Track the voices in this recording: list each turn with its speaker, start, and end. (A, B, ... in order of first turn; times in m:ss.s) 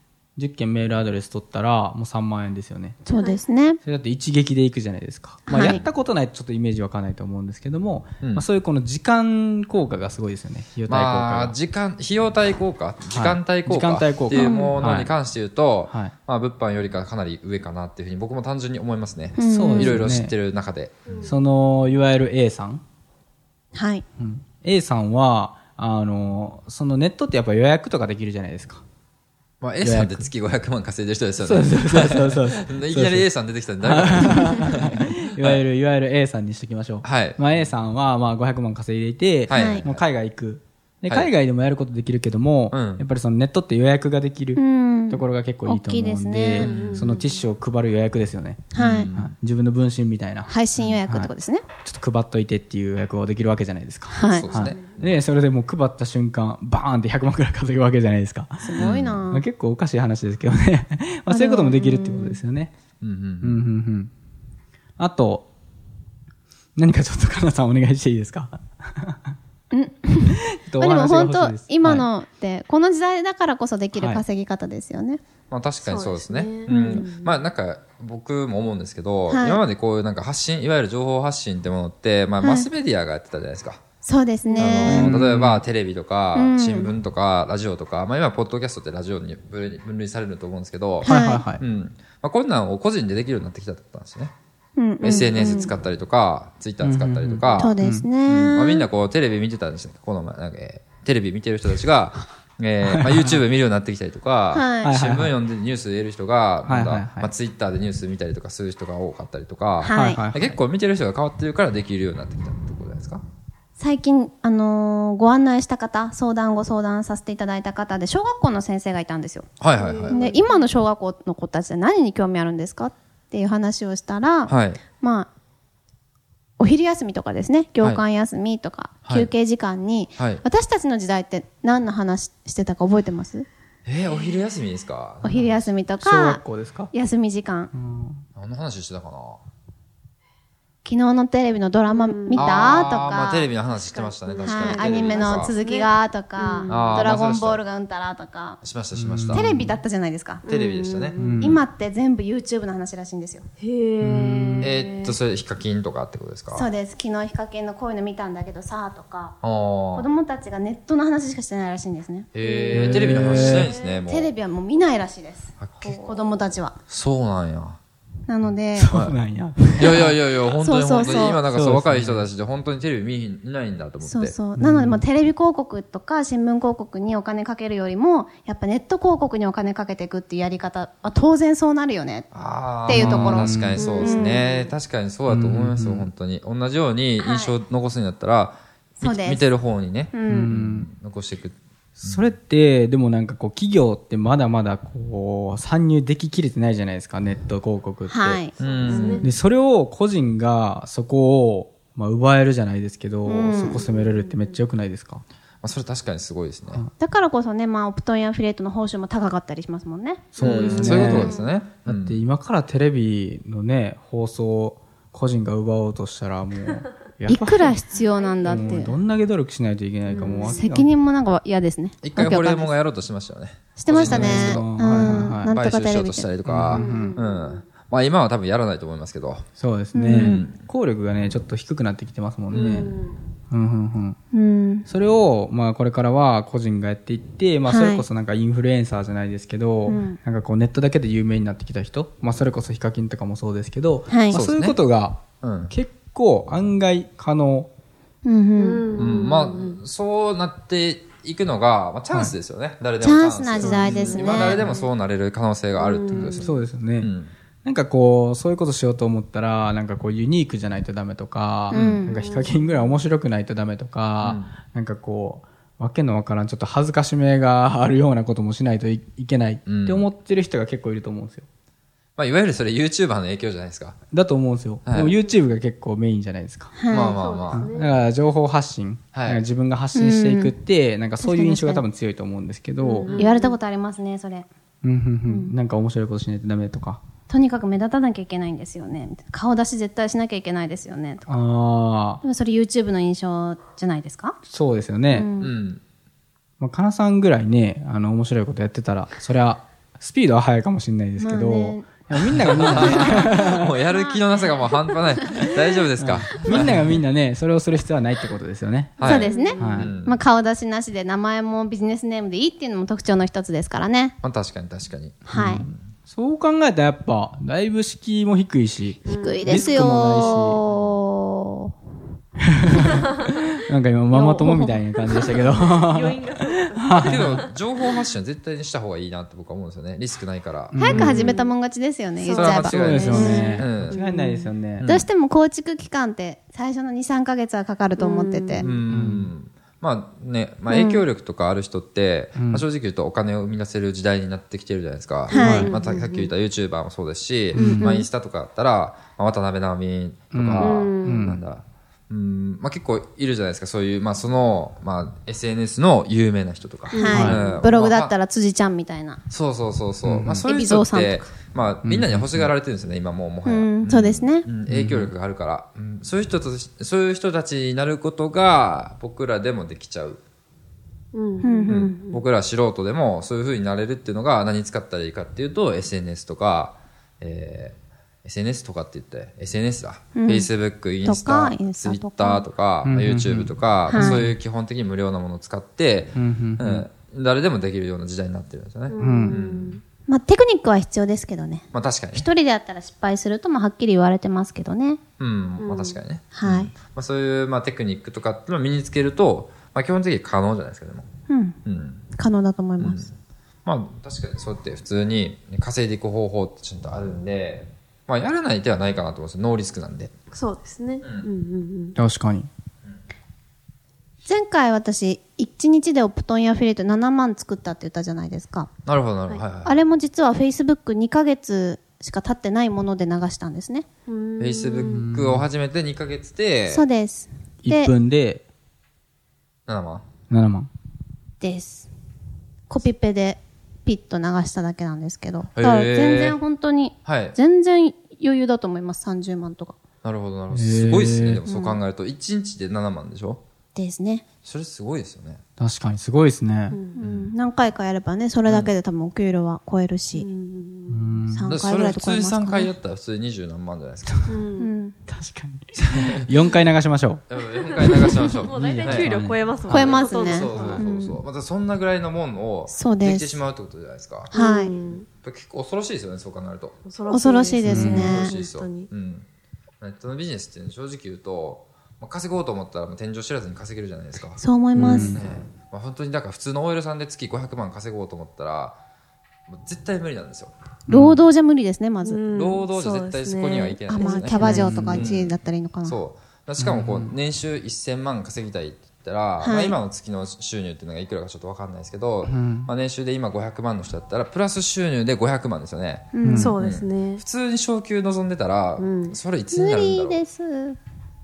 0:00.4-0:03.0 A
0:03.0-0:03.8 B
0:03.1-0:03.4 C
0:03.8-0:11.6 A
0:05.5-0:05.8 B
0:10.9-0:21.3 D
0:13.1-0:15.1 A
0:14.3-0:14.7 B
0:15.9-0:16.1 A
0:19.4-0:20.0 B
0:19.4-0:20.3 A
0:21.1-0:21.3 C
0:21.2-0:22.8 A
0:23.7-0:24.0 B
0:24.2-0:28.8 A
0:29.6-0:35.6 D
0:29.8-0:30.3 A
0:31.4-0:33.3 A
0:33.8-0:51.3 A
0:37.0-0:37.6 D
0:39.5-0:40.0 D
0:39.5-0:39.8 B
0:42.7-0:43.0 D
0:44.6-0:46.7 B
0:46.6-0:47.2 D
0:46.7-0:47.4 C
0:48.7-0:49.1 B
0:48.8-0:49.3 D
0:50.5-0:51.6 B
0:51.8-1:02.7 A
0:54.1-0:54.5 B
0:54.3-0:55.2 D
0:54.6-0:54.9 C
0:58.6-0:59.4 B
0:58.8-0:59.2 D
1:01.3-1:02.4 B
1:03.0-1:03.6 D
1:03.4-1:04.1 A
1:05.0-1:05.5 A
1:06.8-1:09.3 A
1:09.7-1:15.2 B
1:10.5-1:12.1 A
1:14.0-1:14.2 A
1:15.5-1:23.8 D
1:15.8-1:17.4 C
1:16.7-1:17.0 B
1:19.3-1:19.6 B
1:22.4-1:22.7 B
1:24.0-1:25.1 B
1:24.6-1:34.3 D
1:24.8-1:25.6 A
1:26.3-1:26.9 B
1:31.0-1:31.4 B
1:31.0-1:31.6 A
1:34.8-1:35.7 B
1:35.0-1:53.2 D
1:36.8-1:38.1 A
1:37.5-1:38.8 B
1:42.8-1:43.4 A
1:44.5-1:44.9 B
1:44.8-1:45.4 A
1:46.6-1:47.3 A
1:49.8-1:50.2 B
1:49.9-1:50.6 A
1:53.8-1:59.5 B
1:59.6-2:00.2 D
1:59.8-2:00.7 C
2:00.1-2:05.3 B
2:04.5-2:04.8 D
2:06.6-2:13.4 B
2:09.0-2:09.3 D
2:10.2-2:10.4 D
2:13.8-2:15.4 D
2:15.2-2:16.4 B
2:15.3-2:16.9 A
2:16.9-2:17.7 B
2:17.7-2:18.2 A
2:18.4-2:19.4 D
2:20.8-2:23.5 B
2:21.9-2:23.2 C
2:22.4-2:25.5 D
2:23.8-2:27.1 C
2:24.4-2:28.6 B
2:26.7-2:27.6 D
2:28.6-2:29.8 D
2:28.9-2:29.5 A
2:29.3-2:30.4 B
2:30.4-2:31.4 C
2:30.5-2:31.3 D
2:31.2-2:31.6 A
2:31.4-2:33.4 B
2:33.6-2:35.2 C
2:34.0-2:34.7 A
2:34.6-2:36.7 D
2:36.5-2:39.4 B
2:39.4-2:40.1 D
2:39.9-2:42.3 B
2:42.3-2:44.3 D
2:42.4-2:44.0 C
2:42.7-2:43.7 A
2:44.1-2:46.8 B
2:45.6-2:45.9 D
2:45.8-2:46.4 C
2:46.9-2:47.8 D
2:48.3-2:48.9 B
2:48.7-2:50.2 A
2:48.9-2:49.2 D
2:49.8-2:54.4 D
2:50.6-2:51.4 B
2:51.4-2:52.3 A
2:54.0-3:02.3 B
2:54.6-2:55.0 A
3:02.3-3:12.3 D
3:02.9-3:03.8 A
3:02.9-3:04.4 B
3:03.7-3:04.7 C
3:05.3-3:06.1 A
3:07.2-3:07.6 B
3:09.0-3:09.4 B
3:10.1-3:10.5 B
3:10.3-3:10.9 A
3:12.0-3:25.2 A
3:18.1-3:18.5 B
3:18.6-3:19.3 D
3:18.6-3:19.3 C
3:23.2-3:23.8 B
3:23.7-3:24.6 C
3:25.6-3:26.8 D
3:27.0-3:30.3 B
3:30.3-3:31.3 A
3:30.4-3:32.2 D
3:30.5-3:31.3 C
3:30.8-3:31.5 B
3:31.8-3:37.8 A
3:37.3-3:38.9 B
3:37.9-3:39.0 C
3:38.4-3:40.9 A
3:40.1-3:40.6 C
3:40.4-3:42.7 B
3:42.0-3:44.8 D
3:43.8-3:46.3 B
3:44.0-3:45.5 A
3:45.4-3:49.4 D
3:46.4-3:47.2 A
3:46.7-3:47.6 C
3:49.6-3:52.9 A
3:49.9-3:50.4 B
3:50.1-3:50.6 D
3:52.5-3:52.9 D
3:52.5-3:53.2 C
3:53.5-3:54.2 A
3:54.3-3:54.9 B
3:54.8-4:07.7 A
3:57.6-3:58.0 B
3:59.9-4:00.2 B
4:04.1-4:04.4 B
4:04.3-4:04.8 D
4:05.4-4:05.7 D
4:08.2-4:08.9 B
4:08.6-4:09.8 C
4:09.0-4:17.3 D
4:13.0-4:14.6 B
4:13.6-4:14.9 C
4:13.7-4:14.1 A
4:15.7-4:16.5 C
4:16.1-4:17.1 A
4:17.6-4:31.4 A
4:21.7-4:22.2 B
4:21.7-4:22.0 D
4:22.1-4:22.8 C
4:24.2-4:24.5 D
4:29.7-4:30.1 D
4:32.2-4:34.0 D
4:34.1-4:36.7 A
4:34.9-4:35.1 D
4:36.7-4:37.2 B
4:36.9-4:37.7 D
4:36.9-4:38.0 C
4:37.5-4:43.1 A
4:39.1-4:39.4 D
4:39.9-4:40.5 B
4:41.2-4:41.8 B
4:42.8-4:43.6 C
4:43.2-4:44.5 B
4:44.8-4:47.0 A
4:45.3-4:45.5 B
4:47.3-4:51.3 B
4:51.3-4:52.2 A
4:52.2-4:54.4 B
4:54.5-4:55.3 A
4:55.1-4:55.5 B
4:55.4-4:55.8 D
4:56.6-5:03.7 A
5:01.2-5:01.9 B
5:02.4-5:07.0 D
5:02.7-5:03.3 B
5:05.3-5:09.9 A
5:09.0-5:10.2 D
5:09.0-5:14.2 B
5:09.1-5:09.8 C
5:14.2-5:15.8 D
5:15.3-5:15.6 B
5:15.3-5:20.6 A
5:19.0-5:21.7 B
5:19.0-5:19.8 C
5:22.5-5:26.3 A
5:24.1-5:25.4 B
5:25.4-5:27.6 C
5:26.8-5:27.5 A
5:27.0-5:31.1 D
5:30.7-5:31.3 A
5:30.7-5:33.6 B
5:30.9-5:31.5 C
5:32.2-5:34.5 C
5:32.3-5:34.0 D
5:32.4-5:34.9 A
5:34.8-5:35.1 D
5:34.8-5:38.7 B
5:38.0-5:38.7 C
5:38.6-5:58.1 D
5:38.9-5:39.3 A
5:40.7-5:41.0 B
5:42.4-5:42.6 A
5:45.3-5:46.3 C
5:45.3-5:45.7 B
5:45.3-5:45.7 A
5:47.5-5:47.9 A
5:47.8-5:48.0 B
5:50.3-5:51.5 A
5:50.6-5:51.3 C
5:56.9-5:57.6 C
5:57.0-5:59.2 B
5:57.0-5:57.4 A
5:59.3-6:10.2 D
6:00.0-6:00.4 A
6:00.4-6:01.3 B
6:01.8-6:02.5 A
6:03.4-6:04.4 B
6:04.7-6:05.1 A
6:11.1-6:12.2 C
6:11.4-6:12.0 B
6:11.7-6:29.8 D
6:20.2-6:20.5 B
6:21.0-6:22.4 B
6:22.8-6:24.3 A
6:23.9-6:24.2 B
6:26.1-6:26.9 A
6:28.9-6:29.8 C
6:29.0-6:29.4 A
6:30.1-6:35.0 B
6:31.7-6:32.3 D
6:35.2-6:41.1 D
6:35.6-6:36.0 C
6:36.3-6:36.7 B
6:41.3-6:41.6 B
6:41.6-6:42.0 D
6:42.1-6:43.1 B
6:42.8-6:50.1 D
6:50.3-6:52.0 C
6:52.0-6:52.5 A
6:54.2-6:58.7 B
6:58.8-6:59.8 D
6:59.6-7:03.8 B
7:04.1-7:05.1 C
7:04.4-7:06.8 D
7:04.9-7:05.4 A
7:06.7-7:07.9 B
7:07.6-7:08.4 A
7:09.7-7:10.0 D
7:10.3-7:10.7 A
7:11.4-7:11.9 B
7:12.7-7:19.8 B
7:15.6-7:16.4 D
7:17.0-7:17.4 D
7:20.0-7:23.4 D
7:20.5-7:21.4 A
7:21.5-7:21.8 B
7:23.7-7:24.2 B
7:24.4-7:25.4 D
7:25.6-7:26.8 A
7:26.7-7:27.0 C
7:26.9-7:30.3 B
7:27.0-7:27.3 D
7:28.4-7:28.7 D
7:30.1-7:31.1 C
7:30.9-7:31.6 A
7:31.3-7:32.7 B
7:31.5-7:34.3 D
7:34.3-7:34.7 C
7:34.6-7:35.0 B
7:35.1-7:37.2 A
7:35.8-7:36.1 D
7:37.3-7:39.1 D
7:37.6-7:41.0 C
7:38.5-7:39.9 A
7:39.7-7:41.2 B
7:39.7-7:44.3 D
7:40.5-7:40.8 A
7:42.7-7:43.4 B
7:44.3-7:45.1 C
7:44.3-7:44.7 B
7:45.2-7:46.8 D
7:46.8-7:48.9 C
7:47.1-7:48.3 B
7:47.6-7:48.2 A
7:47.8-7:49.2 D
7:49.8-7:54.4 D
7:54.4-7:55.2 B
7:54.7-7:55.2 A
7:55.0-7:58.8 D
7:59.5-8:00.5 D
8:00.9-8:01.2 A
8:00.9-8:02.2 B
8:02.0-8:04.7 C
8:02.3-8:20.2 D
8:03.9-8:06.0 B
8:04.4-8:05.1 A
8:06.6-8:07.1 A
8:09.4-8:09.8 B
8:12.2-8:12.7 A
8:16.1-8:16.5 B
8:16.2-8:16.6 A
8:16.3-8:17.2 C
8:18.8-8:19.2 C
8:19.5-8:20.8 B